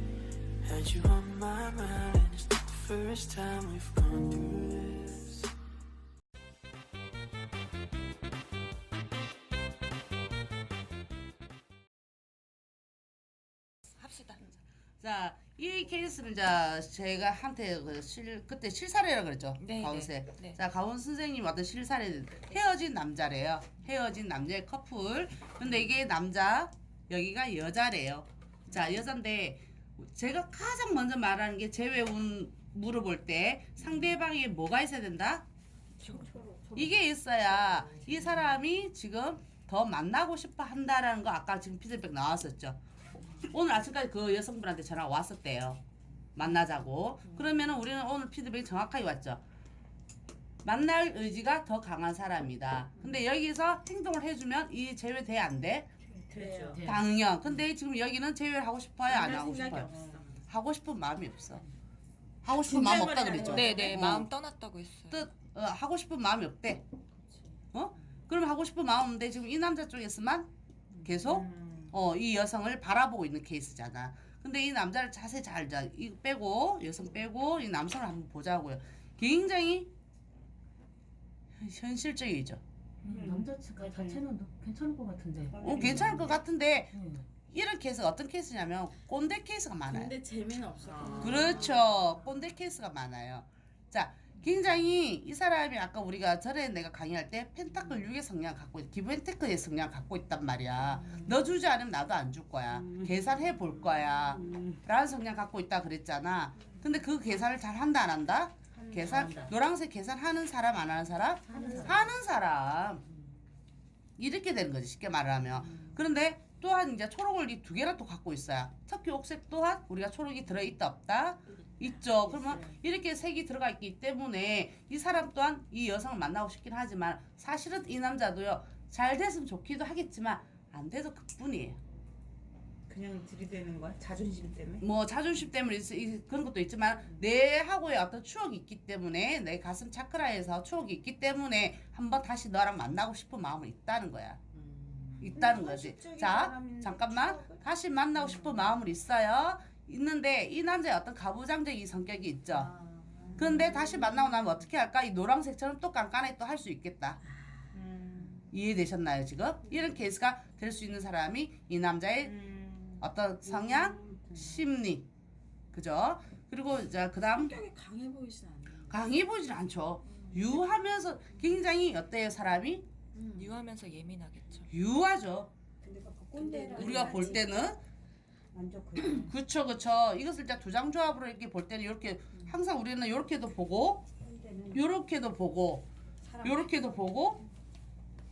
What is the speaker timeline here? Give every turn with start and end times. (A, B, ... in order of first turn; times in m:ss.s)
0:00.6-0:05.5 A
0:14.0-0:14.4 B
0:15.0-0:35.4 C
0:19.6-0:20.6 B
0:36.1-0:36.9 D
0:36.8-0:42.8 C
0:43.4-0:45.8 C
0:46.4-0:49.4 C
0:50.6-0:55.9 C
0:56.3-0:56.9 E
0:56.6-0:57.0 D
0:56.8-1:01.6 C
0:59.0-1:00.4 E
1:02.4-1:04.3 C
1:02.5-1:03.9 E
1:03.4-1:05.3 B
1:05.1-1:06.8 C
1:07.7-1:10.5 C
1:11.0-1:12.0 E
1:11.0-1:19.9 C
1:21.6-1:22.6 C
1:23.0-1:25.7 D
1:23.1-1:24.2 F
1:25.5-1:26.4 F
1:25.6-1:30.2 C
1:26.9-1:27.2 D
1:29.9-1:31.8 E
1:31.2-1:53.0 C
1:42.7-1:43.2 F
1:44.3-1:44.8 F
1:48.8-1:49.5 E
1:51.5-1:52.1 E
1:54.2-2:11.8 C
2:01.8-2:02.7 E
2:12.9-2:14.9 E
2:14.8-2:24.4 C
2:24.5-2:27.6 E
2:25.2-2:32.7 C
2:28.3-2:28.6 E
2:32.5-2:34.3 E
2:33.4-2:37.2 C
2:37.7-2:38.5 E
2:38.5-2:42.4 C
2:42.2-2:43.0 E
2:43.0-2:45.1 C
2:43.5-2:44.5 F
2:45.7-2:47.6 C
2:47.3-2:49.0 E
2:48.9-2:52.9 C
2:53.1-2:53.5 E
2:53.3-2:54.7 B
2:54.7-2:55.5 C
2:55.8-2:57.5 F
2:56.4-2:57.4 E
2:56.7-2:57.8 C
2:58.5-2:59.3 F
2:59.0-3:04.1 C
3:04.2-3:04.8 F
3:04.7-3:05.9 C
3:06.2-3:06.7 F
3:06.4-3:07.4 C